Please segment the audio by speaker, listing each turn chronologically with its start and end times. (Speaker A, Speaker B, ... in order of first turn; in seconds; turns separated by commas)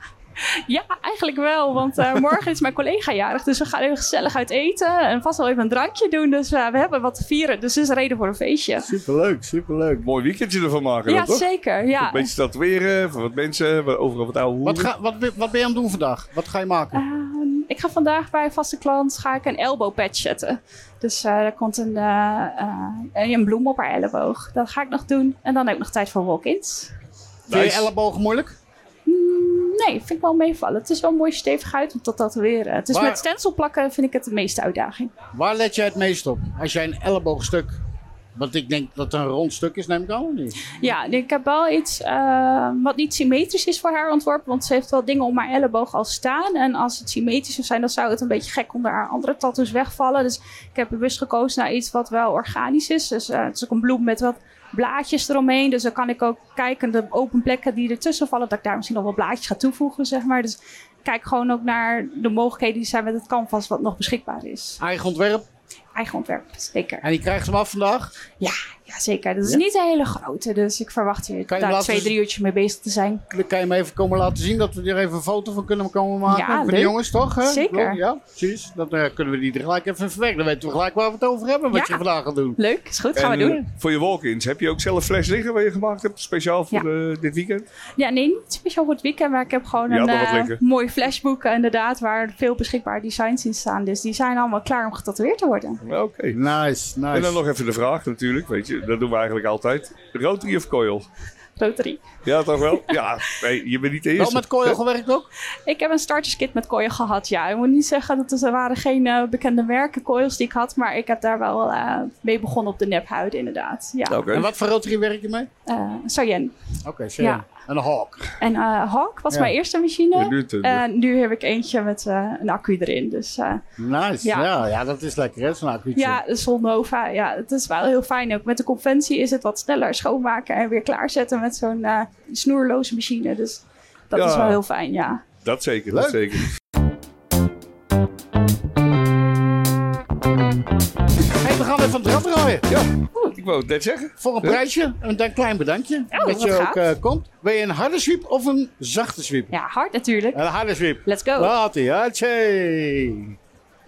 Speaker A: 0.5-8.9, Speaker B: 8.8-10.0, Speaker C: 10.0-11.4, Speaker A: 11.1-12.3, Speaker C: 12.0-14.9, Speaker B: 14.6-17.0, Speaker A: 16.9-26.9, Speaker C: 27.5-27.9, Speaker B: 27.5-28.6, Speaker A: 29.1-35.1, Speaker B: 32.9-33.2, Speaker B: 35.3-37.7, Speaker B: 38.3-40.5, Speaker A: 40.7-64.8, Speaker B: 64.8-65.4, Speaker A: 65.9-67.0, Speaker B: 67.0-68.1, Speaker A: 68.4-73.2, Speaker B: 71.5-72.1, Speaker B: 73.3-82.6, Speaker A: 76.3-78.0, Speaker A: 81.7-82.0, Speaker A: 82.6-83.6, Speaker C: 83.2-87.7, Speaker A: 88.0-95.8, Speaker C: 89.9-90.6, Speaker C: 95.8-96.4, Speaker B: 96.3-97.4, Speaker C: 97.1-101.0, Speaker A: 101.6-102.0, Speaker C: 102.2-104.8, Speaker A: 102.7-103.0, Speaker B: 104.2-105.3, Speaker A: 105.7-114.3, Speaker C: 114.1-114.5, Speaker B: 114.3-115.5, Speaker A: 115.7-116.5, Speaker B: 116.8-118.3, Speaker A: 117.2-117.4, Speaker A: 118.4-123.6, Speaker C: 120.1-120.8, Speaker B: 123.8-126.2, Speaker A: 124.2-124.6, Speaker A: 125.9-135.2, Speaker C: 134.1-134.6, Speaker C: 135.4-136.5, Speaker B: 135.9-136.4, Speaker B: 141.4-142.7, Speaker C: 142.7-144.6, Speaker B: 144.2-149.5, Speaker A: 146.1-146.8, Speaker A: 149.5-150.4, Speaker B: 150.3-153.3, Speaker A: 151.0-151.5